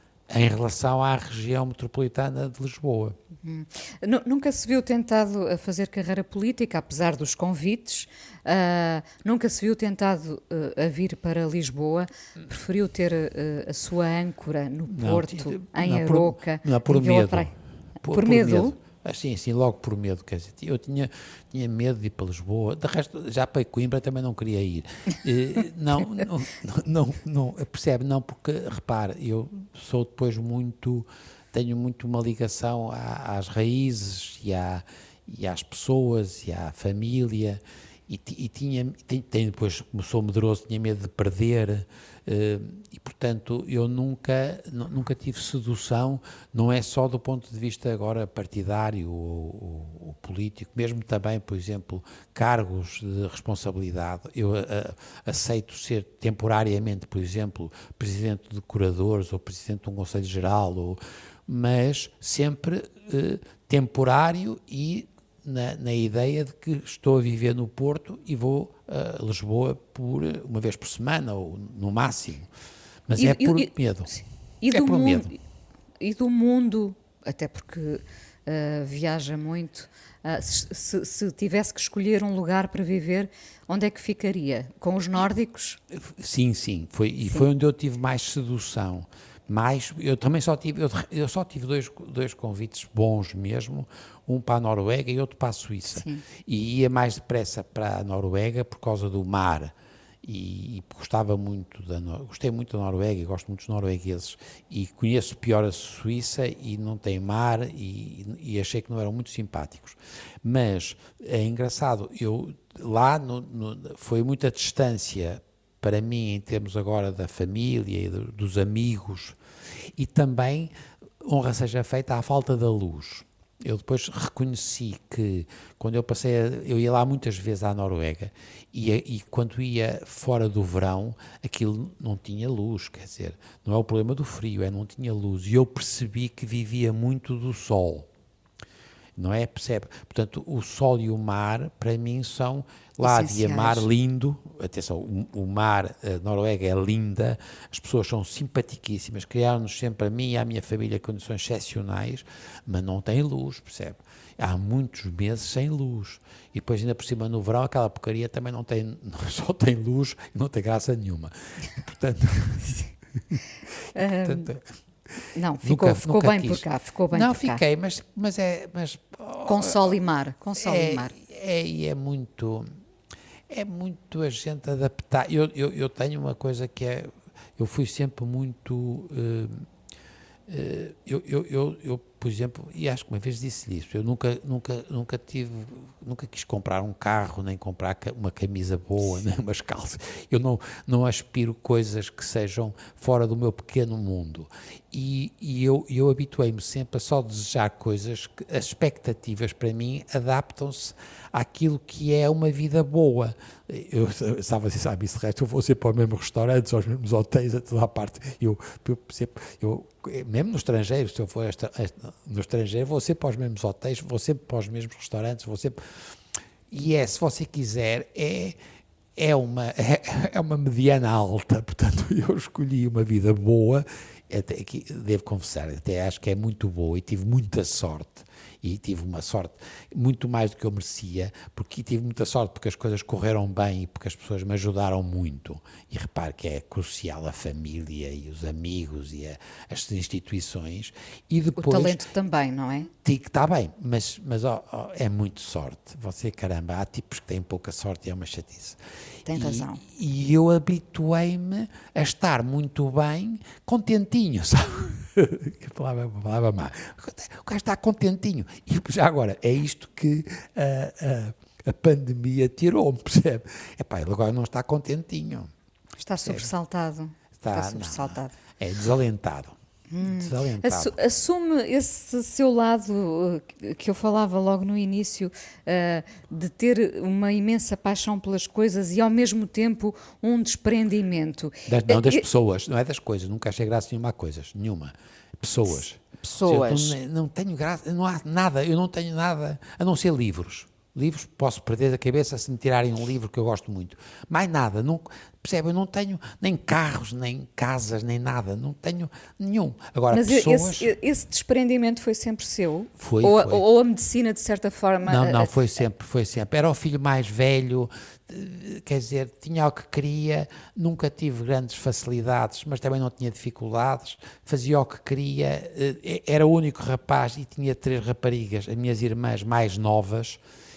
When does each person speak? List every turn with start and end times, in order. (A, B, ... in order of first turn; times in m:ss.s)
0:00.3-0:03.2 A
0:03.4-0:17.5 B
0:14.9-1:12.5 A
0:18.1-0:18.7 B
1:13.1-1:14.1 A
1:13.2-1:15.3 B
1:14.7-1:15.3 A
1:16.0-1:25.8 B
1:25.9-1:59.4 A
1:35.9-1:36.2 B
1:59.9-2:18.1 A
2:19.2-2:49.9 A
2:23.0-2:23.9 B
2:43.9-2:44.5 B
2:45.3-2:47.6 B
2:49.4-2:51.1 B
2:50.6-2:52.7 A
2:53.5-2:59.6 A
3:00.5-3:35.8 A
3:36.7-3:38.6 A
3:39.2-4:02.0 A
4:01.6-4:02.9 B
4:03.0-4:25.5 A
4:09.2-4:09.8 B
4:26.0-4:28.3 B
4:26.2-4:26.5 A
4:27.4-4:31.0 A
4:29.9-4:42.2 B
4:41.7-5:00.9 A
4:46.2-4:47.0 B
5:00.1-5:05.5 B
5:03.0-5:03.6 A
5:05.0-5:20.4 A